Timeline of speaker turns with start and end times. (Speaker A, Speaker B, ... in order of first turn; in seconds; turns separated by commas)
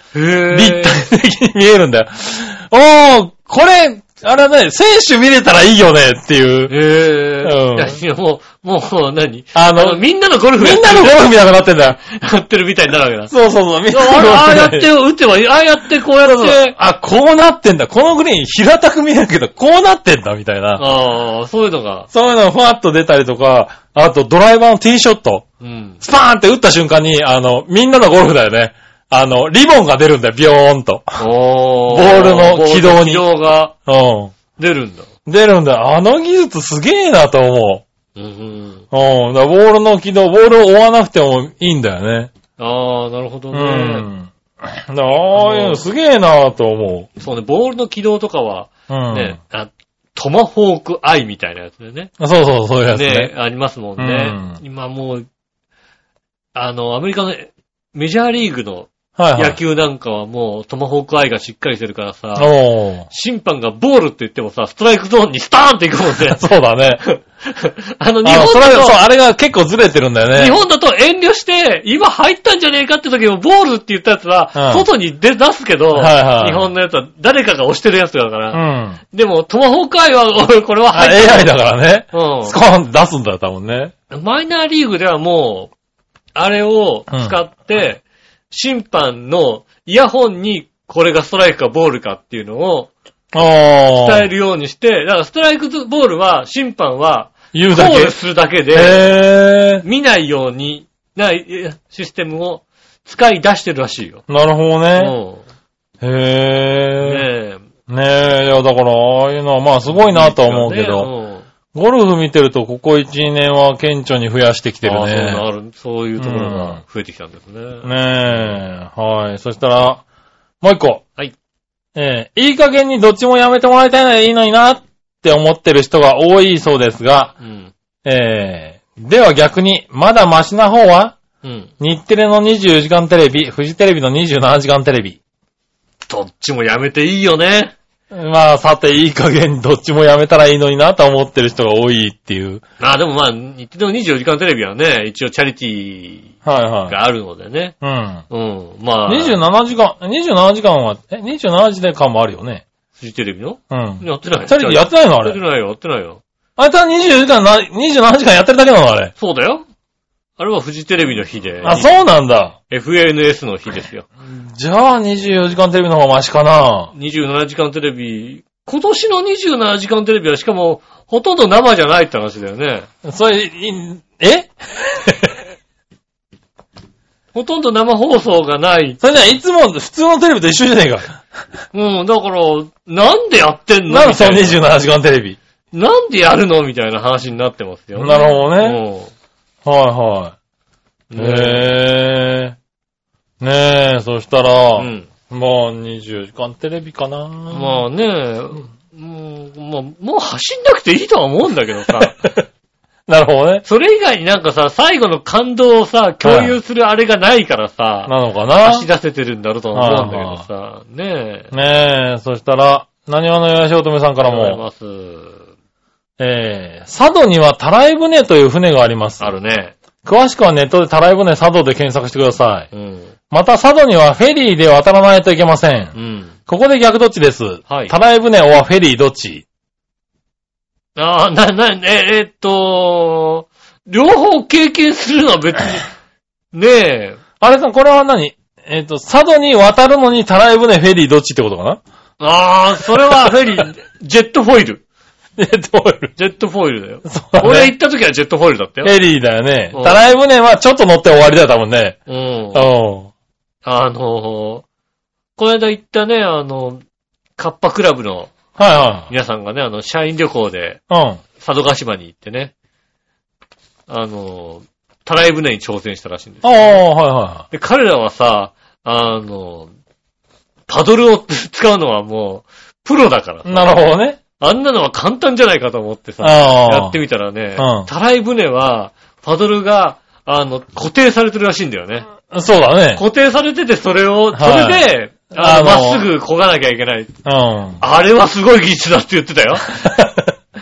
Speaker A: 0.1-1.1, Speaker B: 0.5-6.7, Speaker A: 6.7-11.3, Speaker B: 7.4-8.0, Speaker B: 9.5-10.0, Speaker B: 10.6-12.0, Speaker A: 12.1-13.3, Speaker B: 13.3-14.9, Speaker A: 13.9-16.7, Speaker B: 16.2-20.9, Speaker A: 20.8-22.1, Speaker B: 22.1-25.4, Speaker A: 25.6-26.0, Speaker B: 26.0-31.2, Speaker A: 31.2-33.7, Speaker B: 31.9-33.2, Speaker B: 33.9-34.3, Speaker A: 34.6-35.1, Speaker B: 35.2-37.8, Speaker A: 38.1-38.8, Speaker B: 38.9-42.3, Speaker A: 42.6-44.1, Speaker B: 43.5-47.1, Speaker A: 45.3-45.8, Speaker A: 47.2-52.1, Speaker B: 48.9-49.4, Speaker B: 52.2-53.3, Speaker A: 52.9-55.2, Speaker B: 54.0-54.6, Speaker A: 56.5-62.5, Speaker B: 59.2-59.6, Speaker B: 62.4-63.1, Speaker A: 63.1-66.4, Speaker B: 66.2-67.0, Speaker A: 67.0-69.0, Speaker B: 68.2-70.6, Speaker A: 70.3-81.6, Speaker B: 74.5-74.9, Speaker B: 75.9-76.7, Speaker B: 78.5-79.0, Speaker B: 80.9-83.9, Speaker A: 82.1-82.6, Speaker A: 84.1-85.7, Speaker A: 86.3-92.9, Speaker B: 93.3-94.3, Speaker A: 94.0-99.1, Speaker B: 97.5-98.2, Speaker B: 98.7-99.8, Speaker A: 99.8-104.2, Speaker B: 104.3-105.1, Speaker A: 105.0-105.4, Speaker B: 106.0-107.3, Speaker A: 107.0-107.6, Speaker B: 107.9-111.1, Speaker A: 109.8-111.5, Speaker B: 111.7-115.4, Speaker A: 114.8-118.6, Speaker B: 116.2-116.8, Speaker B: 117.8-120.0, Speaker B: 120.6-121.0, Speaker B: 121.9-127.3, Speaker A: 127.4-127.7, Speaker B: 128.0-131.1, Speaker A: 131.4-131.7, Speaker B: 131.8-135.2, Speaker A: 136.1-137.7, Speaker B: 138.1-142.6, Speaker A: 142.8-146.3, Speaker B: 146.4-146.9, Speaker A: 146.9-147.8, Speaker B: 147.8-148.2, Speaker A: 148.3-149.4, Speaker B: 149.1-152.6, Speaker A: 152.9-156.2, Speaker B: 153.7-155.4, Speaker B: 156.6-159.1, Speaker A: 159.2-159.6, Speaker A: 160.4-162.0, Speaker B: 161.6-162.5, Speaker A: 162.7-164.1, Speaker B: 164.2-166.9, Speaker A: 166.9-172.9, Speaker B: 173.0-175.4, Speaker A: 177.3-179.0, Speaker B: 179.0-181.2, Speaker A: 181.7-184.6, Speaker B: 183.9-185.4, Speaker A: 185.7-189.1, Speaker B: 187.9-188.8, Speaker B: 189.6-190.3, Speaker A: 191.1-191.7, Speaker B: 191.2-192.6, Speaker B: 193.4-197.8, Speaker A: 194.8-195.1, Speaker A: 197.5-202.3, Speaker B: 201.9-202.4, Speaker B: 203.1-203.6, Speaker A: 203.6-211.5, Speaker B: 206.2-206.6, Speaker B: 208.1-208.9, Speaker B: 209.7-210.4, Speaker B: 211.5-214.6, Speaker A: 214.2-215.5, Speaker B: 216.2-219.3, Speaker A: 219.2-219.8, Speaker B: 220.0-222.7, Speaker A: 222.7-223.1, Speaker B: 223.3-225.9, Speaker A: 225.9-226.3, Speaker B: 226.5-229.4, Speaker A: 227.7-227.9, Speaker A: 230.9-235.9, Speaker A: 236.5-237.2, Speaker B: 237.4-241.8, Speaker A: 242.2-244.8, Speaker B: 243.0-243.4, Speaker B: 245.4-246.1, Speaker A: 246.2-248.9, Speaker B: 247.1-247.7, Speaker B: 248.8-252.0, Speaker A: 249.7-250.0, Speaker A: 252.1-252.7, Speaker B: 252.5-253.1, Speaker A: 253.6-254.6, Speaker A: 255.4-256.8, Speaker A: 257.4-258.4, Speaker B: 258.6-259.1, Speaker A: 259.1-260.8, Speaker B: 260.9-261.2, Speaker A: 261.4-262.5, Speaker A: 263.9-266.8, Speaker B: 266.4-267.4, Speaker A: 267.5-269.7, Speaker A: 270.7-273.8, Speaker B: 273.4-274.2, Speaker A: 274.4-282.1, Speaker B: 276.2-277.0, Speaker B: 277.6-277.9, Speaker B: 282.3-283.0, Speaker A: 282.9-287.1, Speaker B: 284.3-286.1, Speaker B: 287.2-287.8, Speaker A: 287.8-289.9, Speaker B: 289.7-290.3